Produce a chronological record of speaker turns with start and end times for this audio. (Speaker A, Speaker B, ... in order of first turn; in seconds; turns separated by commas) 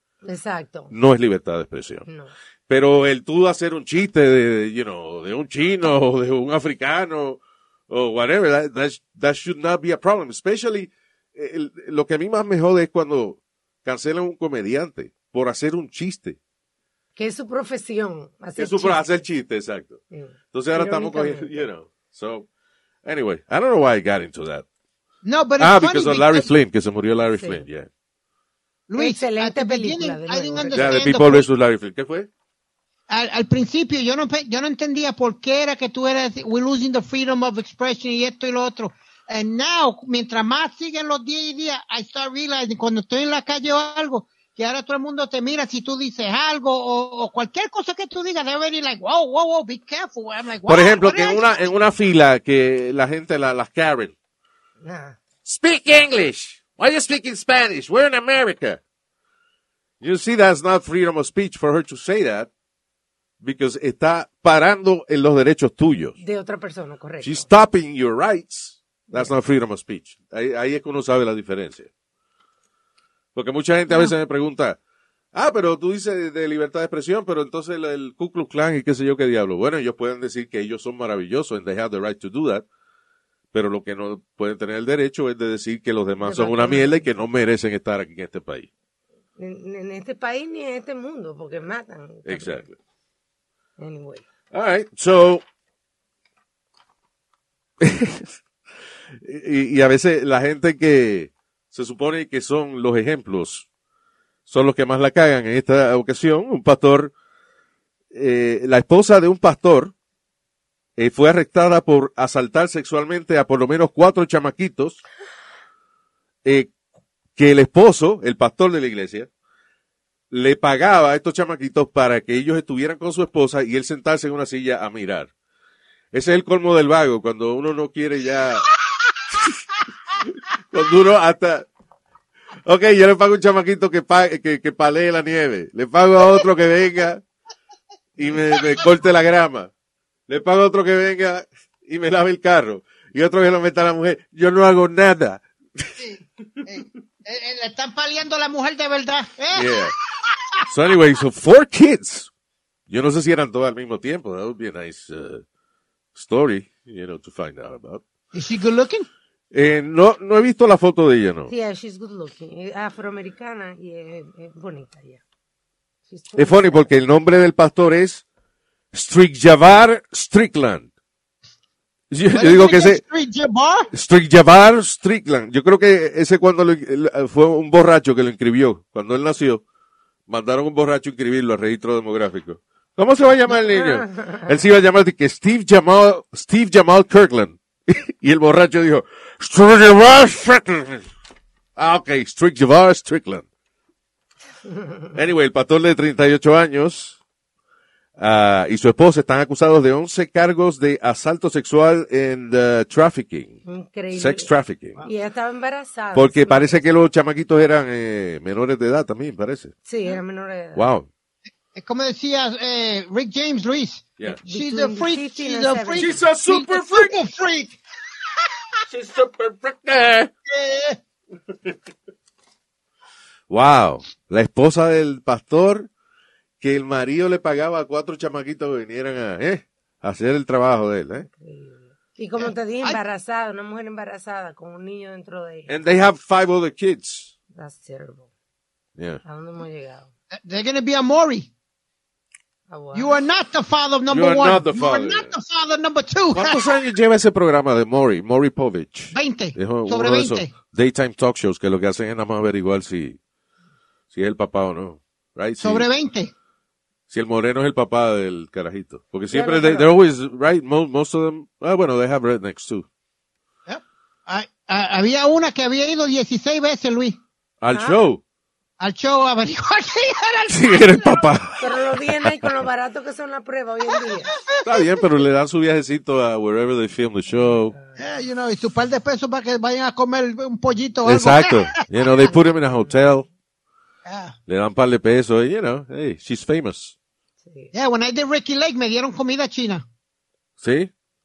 Speaker A: 0.2-0.9, Speaker B: 0.9-2.0, Speaker A: 2.0-2.3, Speaker B: 2.7-16.4, Speaker A: 17.1-19.1, Speaker B: 18.6-20.0, Speaker A: 20.1-21.7, Speaker B: 20.5-22.5, Speaker B: 23.0-24.6, Speaker C: 25.2-26.5, Speaker B: 25.6-27.9, Speaker A: 27.3-27.6, Speaker C: 28.9-31.5, Speaker A: 29.0-31.0, Speaker B: 30.7-32.3, Speaker C: 33.1-51.6, Speaker B: 50.6-54.1, Speaker A: 54.8-55.2, Speaker B: 55.4-58.8, Speaker B: 60.0-62.5, Speaker B: 63.4-66.2, Speaker A: 66.2-67.5, Speaker B: 67.2-71.9, Speaker A: 69.1-69.3, Speaker B: 73.3-74.8, Speaker B: 75.3-82.6, Speaker B: 83.5-88.7, Speaker A: 86.2-87.0, Speaker A: 89.4-92.6, Speaker B: 92.2-92.7, Speaker A: 93.8-94.2, Speaker B: 94.5-95.4, Speaker B: 97.8-98.3, Speaker B: 99.1-103.7, Speaker B: 104.5-107.1, Speaker B: 108.1-109.9, Speaker B: 111.0-115.0, Speaker B: 116.4-116.7, Speaker B: 117.3-119.3, Speaker B: 120.3-125.3, Speaker B: 126.1-128.7, Speaker B: 130.2-131.7, Speaker B: 132.6-137.2, Speaker B: 138.2-139.7, Speaker B: 140.3-145.9, Speaker C: 146.0-149.9, Speaker B: 149.5-149.9, Speaker B: 150.7-152.3, Speaker B: 152.9-155.4, Speaker B: 156.1-158.0, Speaker C: 158.3-159.1, Speaker B: 159.5-161.5, Speaker A: 161.5-165.2, Speaker A: 166.1-166.9, Speaker B: 166.3-168.2, Speaker B: 168.9-170.9, Speaker B: 172.1-173.0, Speaker C: 172.3-173.9, Speaker B: 173.9-179.6, Speaker B: 180.3-191.1, Speaker A: 183.5-184.5, Speaker B: 191.8-193.4, Speaker B: 195.1-197.2, Speaker B: 198.2-203.6, Speaker A: 203.6-204.5, Speaker B: 204.1-205.0, Speaker A: 205.0-206.9, Speaker B: 206.1-209.7, Speaker A: 209.8-210.9, Speaker B: 210.7-211.1, Speaker C: 211.7-217.8, Speaker A: 214.2-216.2, Speaker B: 215.9-217.2, Speaker B: 218.9-220.3, Speaker C: 220.5-221.0, Speaker B: 223.5-225.9, Speaker B: 226.6-231.3, Speaker A: 231.3-235.8, Speaker C: 232.4-233.0, Speaker B: 235.7-237.3, Speaker A: 237.5-238.3, Speaker A: 239.2-240.1, Speaker C: 240.3-241.5, Speaker A: 242.7-243.2, Speaker C: 242.9-246.7, Speaker B: 244.1-245.3, Speaker B: 246.3-253.2, Speaker C: 249.1-250.5, Speaker B: 254.1-255.9, Speaker C: 255.6-256.3, Speaker B: 257.1-262.9, Speaker A: 259.3-259.9, Speaker C: 263.7-267.2, Speaker B: 267.6-268.2, Speaker A: 267.7-268.0, Speaker C: 268.8-271.3, Speaker B: 270.5-271.7, Speaker A: 271.6-274.4, Speaker C: 274.5-274.9, Speaker B: 274.6-277.7, Speaker A: 277.4-278.0, Speaker C: 278.0-281.8, Speaker B: 281.0-283.2, Speaker C: 284.1-284.4, Speaker B: 284.5-286.9, Speaker A: 287.4-287.7, Speaker C: 287.7-289.8, Speaker B: 290.6-290.9